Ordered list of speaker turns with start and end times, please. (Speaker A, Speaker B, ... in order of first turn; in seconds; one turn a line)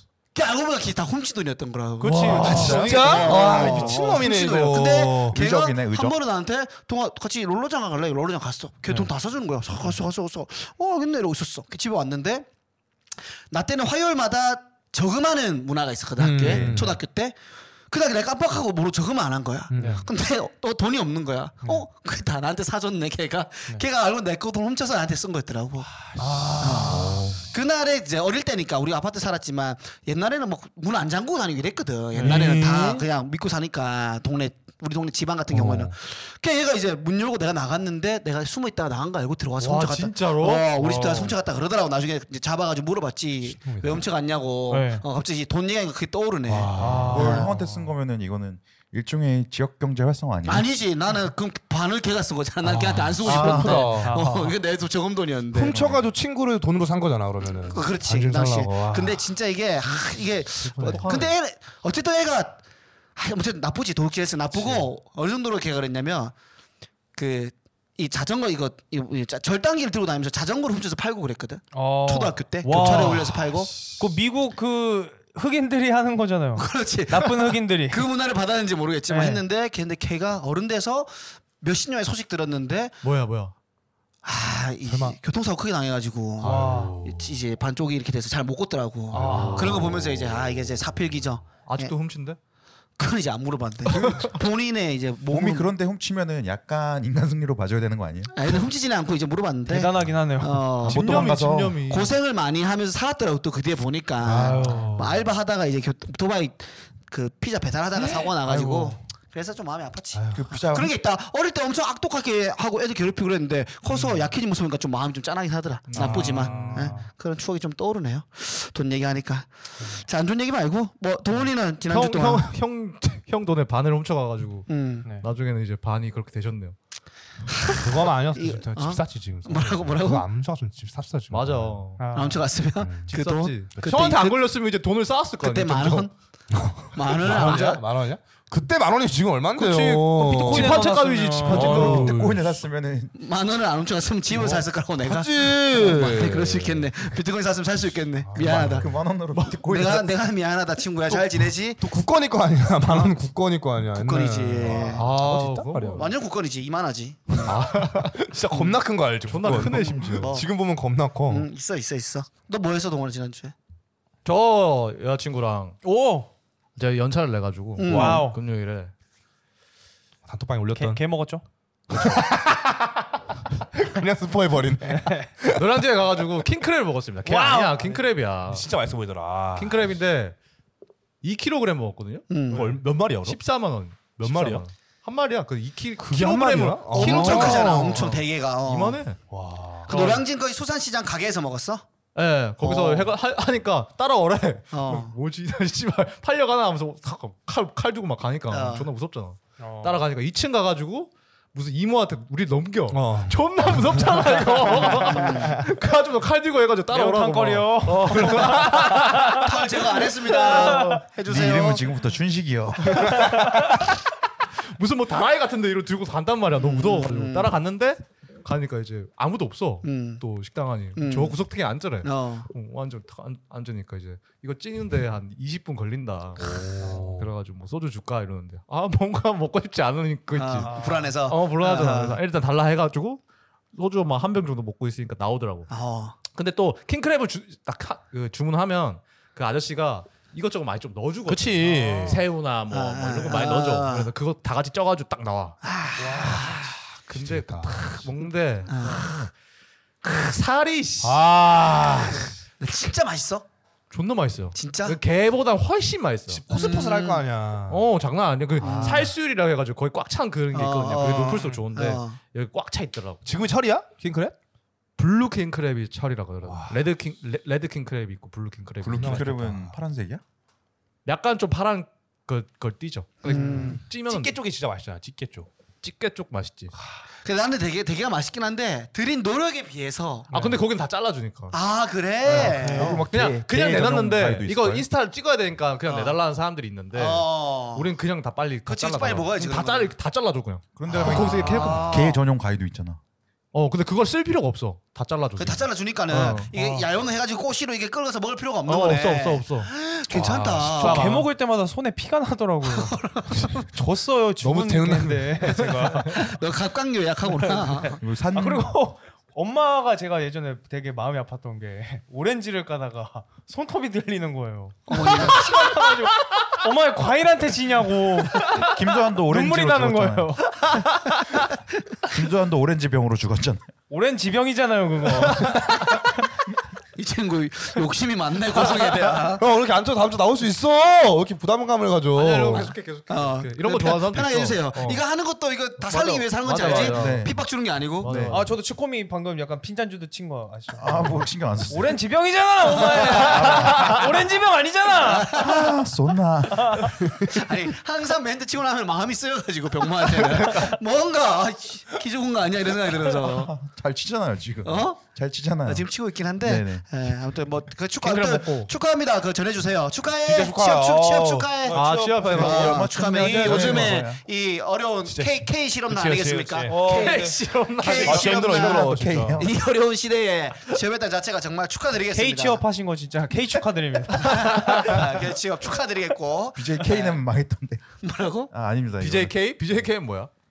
Speaker A: 0.3-12.5
Speaker B: 2.0-2.9
Speaker C: 2.0-4.0
Speaker D: 2.0-5.4
Speaker E: 5.3-6.2
Speaker A: 13.5-17.4
Speaker D: 16.2-17.0
Speaker E: 16.4-16.9
Speaker A: 17.9-25.9
Speaker D: 19.7-20.1
Speaker B: 19.8-20.1
Speaker B: 26.1-27.2
Speaker D: 26.2-27.4
Speaker A: 26.6-47.5
Speaker D: 32.1-33.0
Speaker C: 32.2-33.0
Speaker D: 35.5-36.0
Speaker C: 39.6-41.3
Speaker D: 43.5-44.1
Speaker B: 44.7-45.0
Speaker D: 46.5-47.5
Speaker B: 46.8-47.9
Speaker E: 47.1-50.7
Speaker A: 50.5-55.9
Speaker D: 52.6-54.1
Speaker C: 53.2-54.2
Speaker B: 54.0-54.5
Speaker D: 55.5-59.3
Speaker C: 55.6-56.0
Speaker A: 57.6-62.6
Speaker D: 60.6-61.3
Speaker C: 60.8-61.4
Speaker A: 63.2-66.3
Speaker D: 64.5-64.9
Speaker A: 67.1-73.7
Speaker B: 71.7-78.1
Speaker A: 76.6-83.0
Speaker B: 79.1-79.4
Speaker C: 83.0-83.5
Speaker A: 84.2-92.0
Speaker D: 84.9-85.2
Speaker D: 86.4-87.4
Speaker B: 86.4-87.0
Speaker D: 89.1-90.5
Speaker C: 89.2-90.0
Speaker B: 89.2-89.6
Speaker C: 91.6-92.4
Speaker A: 93.0-95.7
Speaker C: 93.9-94.2
Speaker E: 95.3-98.3
Speaker A: 98.3-122.5
Speaker B: 99.7-100.8
Speaker C: 100.8-102.2
Speaker E: 100.8-101.8
Speaker D: 104.2-105.2
Speaker E: 108.5-109.0
Speaker D: 110.1-110.4
Speaker E: 110.3-110.9
Speaker D: 113.9-114.2
Speaker C: 115.9-117.0
Speaker D: 116.0-116.8
Speaker B: 116.1-117.1
Speaker C: 121.9-126.8
Speaker A: 124.7-125.1
Speaker B: 125.0-125.3
Speaker A: 127.6-130.2
Speaker D: 127.7-131.8
Speaker C: 131.3-132.2
Speaker B: 132.0-132.4
Speaker A: 132.1-134.5
Speaker D: 132.8-133.1
Speaker C: 133.1-136.1
Speaker D: 133.7-134.1
Speaker A: 135.4-136.1
Speaker D: 136.5-140.9
Speaker A: 136.9-137.8
Speaker C: 137.2-137.8
Speaker C: 139.6-142.2
Speaker B: 140.4-142.0
Speaker D: 141.5-142.6
Speaker E: 141.5-143.1
Speaker A: 143.2-148.9
Speaker D: 144.3-147.1
Speaker D: 148.2-148.9
Speaker E: 148.4-150.1
Speaker C: 149.3-149.6
Speaker A: 149.7-151.8
Speaker D: 151.1-156.2
Speaker A: 152.9-153.1
Speaker A: 153.9-155.1
Speaker C: 154.9-156.1
Speaker A: 156.0-157.6
Speaker D: 157.4-161.5
Speaker C: 157.5-158.2
Speaker A: 158.5-158.8
Speaker C: 159.2-160.4
Speaker A: 160.2-160.5
Speaker A: 161.3-163.5
Speaker C: 164.2-165.8
Speaker B: 165.8-166.3
Speaker C: 166.8-168.9
Speaker A: 167.8-168.3
Speaker B: 167.9-168.4
Speaker D: 170.2-171.0
Speaker B: 170.8-171.4
Speaker D: 171.9-172.9
Speaker D: 173.7-176.2
Speaker B: 174.9-175.3
Speaker C: 175.6-178.7
Speaker B: 177.2-178.0
Speaker D: 178.5-179.8
Speaker C: 179.6-180.4
Speaker C: 181.2-189.2
Speaker A: 182.3-182.8
Speaker D: 182.5-183.4
Speaker D: 184.2-184.6
Speaker D: 186.0-188.2
Speaker A: 186.9-189.0
Speaker D: 189.3-190.2
Speaker C: 189.9-190.2
Speaker A: 189.9-191.9
Speaker C: 192.2-209.4
Speaker A: 192.6-193.1
Speaker A: 194.7-195.2
Speaker A: 198.5-198.9
Speaker B: 199.6-200.1
Speaker D: 202.9-203.4
Speaker A: 205.1-205.7
Speaker B: 206.9-211.1
Speaker A: 209.3-212.0
Speaker C: 210.5-210.9
Speaker E: 211.2-213.2
Speaker C: 212.9-214.0
Speaker C: 214.6-233.2
Speaker A: 216.6-217.6
Speaker A: 219.8-220.2
Speaker A: 221.0-221.4
Speaker A: 222.0-222.5
Speaker D: 226.4-227.3
Speaker A: 230.3-232.2
Speaker B: 230.6-231.2
Speaker C: 233.7-235.7
Speaker A: 235.7-236.2
Speaker C: 236.2-245.6
Speaker D: 241.3-242.2
Speaker B: 241.7-242.2
Speaker A: 242.7-244.2
Speaker A: 245.6-246.7
Speaker B: 246.0-246.5
Speaker C: 246.3-249.3
Speaker D: 247.1-248.1
Speaker A: 248.7-249.3
Speaker C: 250.0-251.2
Speaker D: 251.0-252.3
Speaker A: 252.6-253.4
Speaker C: 253.9-256.4
Speaker A: 254.5-255.0
Speaker D: 256.3-257.8
Speaker A: 256.5-257.2
Speaker C: 257.7-263.2
Speaker D: 258.6-259.0
Speaker A: 258.6-259.1
Speaker B: 258.7-259.0
Speaker A: 260.5-262.2
Speaker D: 263.2-264.4
Speaker C: 265.0-269.4
Speaker D: 266.5-266.9
Speaker E: 268.8-270.2
Speaker D: 268.9-269.7
Speaker C: 271.1-274.4
Speaker A: 273.2-273.8
Speaker D: 273.3-275.5
Speaker C: 275.8-276.7
Speaker A: 277.2-280.3
Speaker B: 280.3-280.6
Speaker C: 280.3-281.6
Speaker A: 281.5-283.0
Speaker E: 282.2-284.9
Speaker C: 282.3-292.0
Speaker B: 282.3-283.0
Speaker A: 285.9-286.2
Speaker A: 286.9-287.9
Speaker A: 288.7-289.9
Speaker E: 290.8-293.0
Speaker A: 290.9-292.2
Speaker C: 293.5-296.6
Speaker A: 295.4-301.2
Speaker C: 298.7-299.7
Speaker D: 300.1-301.1
Speaker C: 300.7-301.3
Speaker B: 300.8-303.0
Speaker A: 302.7-303.6
Speaker D: 303.3-303.6
Speaker B: 303.7-306.4
Speaker D: 304.4-305.9
Speaker C: 305.6-305.9
Speaker A: 306.1-308.0
Speaker B: 307.3-320.9
Speaker E: 308.0-308.8
Speaker A: 314.9-315.6
Speaker C: 315.0-315.4
Speaker E: 318.5-320.4
Speaker C: 320.9-321.4
Speaker E: 322.0-323.6
Speaker B: 323.9-325.9
Speaker C: 325.4-325.9
Speaker A: 326.9-329.4
Speaker D: 328.6-332.8
Speaker C: 332.1-335.1
Speaker A: 333.1-338.3
Speaker C: 335.8-337.4
Speaker E: 336.8-337.4
Speaker C: 338.0-338.6
Speaker E: 338.0-338.4
Speaker B: 338.3-345.7
Speaker E: 340.8-342.0
Speaker A: 342.7-343.8
Speaker C: 343.2-344.0
Speaker A: 344.9-345.9
Speaker E: 345.4-347.0
Speaker B: 346.5-347.0
Speaker A: 347.1-353.5
Speaker E: 353.3-355.9
Speaker A: 354.6-355.0
Speaker A: 355.7-372.6
Speaker E: 356.4-356.9
Speaker C: 358.0-358.7
Speaker D: 360.2-361.6
Speaker B: 361.6-362.7
Speaker C: 361.7-364.0
Speaker E: 362.4-364.2
Speaker D: 363.5-364.0
Speaker D: 365.1-366.9
Speaker B: 366.7-367.4
Speaker C: 366.9-368.3
Speaker D: 367.9-369.5
Speaker E: 368.1-369.5
Speaker B: 372.1-374.5
Speaker A: 374.1-377.2
Speaker C: 374.3-375.0
Speaker E: 376.6-377.8
Speaker A: 378.0-378.5
Speaker E: 378.5-379.4
Speaker C: 379.0-380.3